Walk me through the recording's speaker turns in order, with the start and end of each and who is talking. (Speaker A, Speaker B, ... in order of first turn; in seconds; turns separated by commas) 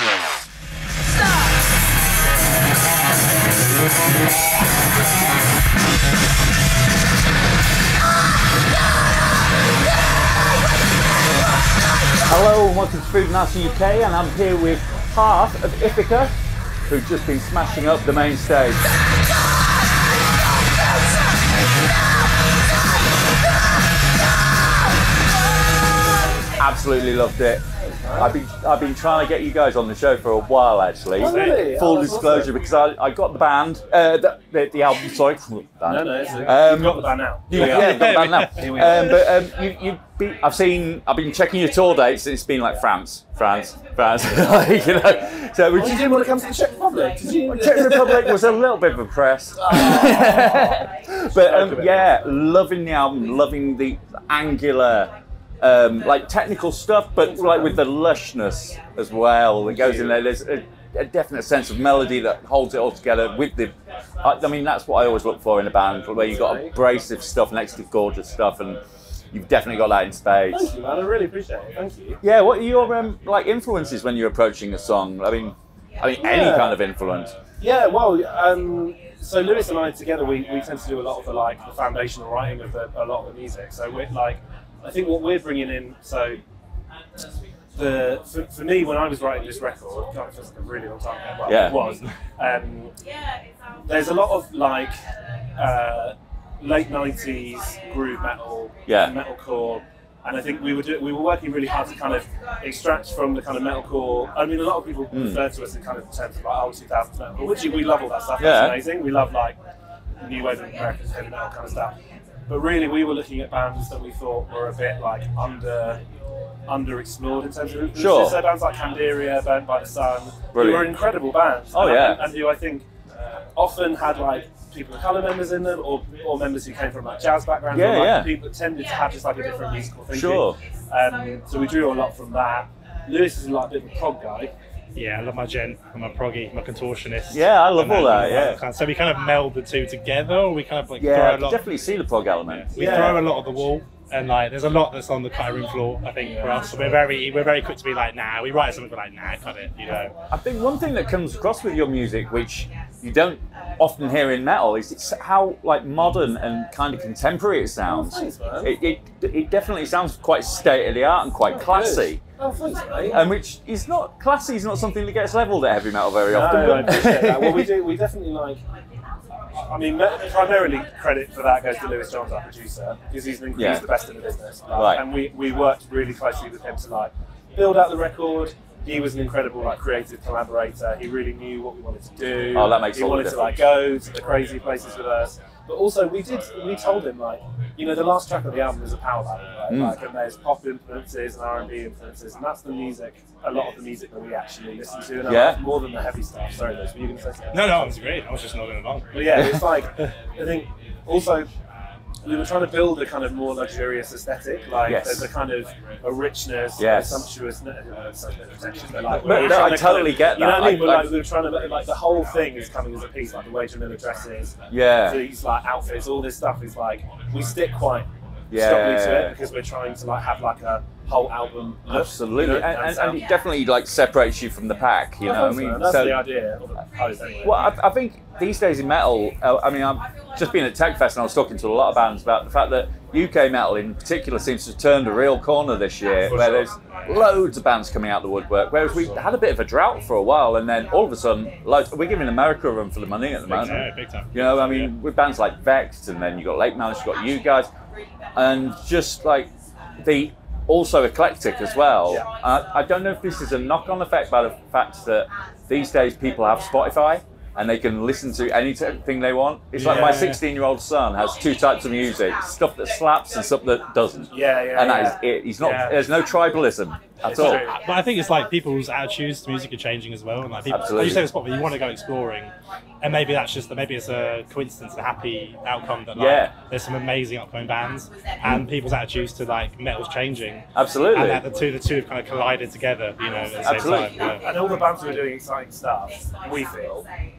Speaker A: 12.2-16.3, Speaker A: 16.9-18.9, Speaker A: 26.6-27.6, Speaker B: 28.0-28.4, Speaker A: 28.1-46.2, Speaker B: 31.1-32.5, Speaker B: 35.9-39.4, Speaker C: 37.6-38.5, Speaker B: 44.9-48.4, Speaker A: 47.5-68.8, Speaker B: 49.6-52.1, Speaker B: 57.2-57.8, Speaker B: 59.6-60.2, Speaker B: 66.3-66.7, Speaker A: 69.3-70.7, Speaker B: 70.5-72.2, Speaker A: 72.2-77.3, Speaker B: 76.2-76.8, Speaker B: 77.6-86.4, Speaker B: 87.7-93.0, Speaker A: 91.5-91.8, Speaker C: 91.7-92.1, Speaker B: 93.8-95.0, Speaker B: 95.6-109.6, Speaker A: 98.9-99.1, Speaker A: 105.1-105.4, Speaker A: 108.4-108.8, Speaker B: 110.2-112.0, Speaker B: 112.5-116.0, Speaker B: 116.7-122.9, Speaker A: 117.9-118.4, Speaker A: 120.5-121.0, Speaker A: 121.7-122.2, Speaker B: 123.5-134.5, Speaker A: 127.7-128.3, Speaker A: 130.1-130.6, Speaker C: 134.9-141.6, Speaker A: 137.3-138.6, Speaker A: 141.0-143.1, Speaker C: 142.5-150.1, Speaker B: 142.7-143.3, Speaker B: 146.2-147.1, Speaker A: 150.3-162.2, Speaker B: 157.8-158.7, Speaker B: 161.5-163.3, Speaker A: 163.1-167.7, Speaker B: 166.2-168.6, Speaker B: 169.7-198.1, Speaker A: 173.5-173.8, Speaker A: 174.7-175.0, Speaker A: 182.5-183.8, Speaker A: 189.7-189.9, Speaker A: 195.2-195.6, Speaker C: 197.5-199.5, Speaker B: 199.1-201.5, Speaker A: 199.3-199.7, Speaker B: 202.2-223.3, Speaker A: 204.8-205.3, Speaker A: 206.8-207.3, Speaker A: 209.1-211.2, Speaker A: 214.7-215.2, Speaker A: 218.5-219.3, Speaker A: 221.9-226.2, Speaker B: 225.2-227.7, Speaker A: 227.4-247.7, Speaker B: 236.3-236.8, Speaker C: 243.4-244.9, Speaker A: 248.3-267.7, Speaker C: 259.7-260.4, Speaker B: 259.8-260.3, Speaker B: 264.3-266.0, Speaker B: 267.2-267.9, Speaker C: 267.3-284.5, Speaker A: 270.7-271.2, Speaker A: 276.1-276.5, Speaker A: 280.7-281.4, Speaker A: 283.6-284.2, Speaker B: 284.4-287.1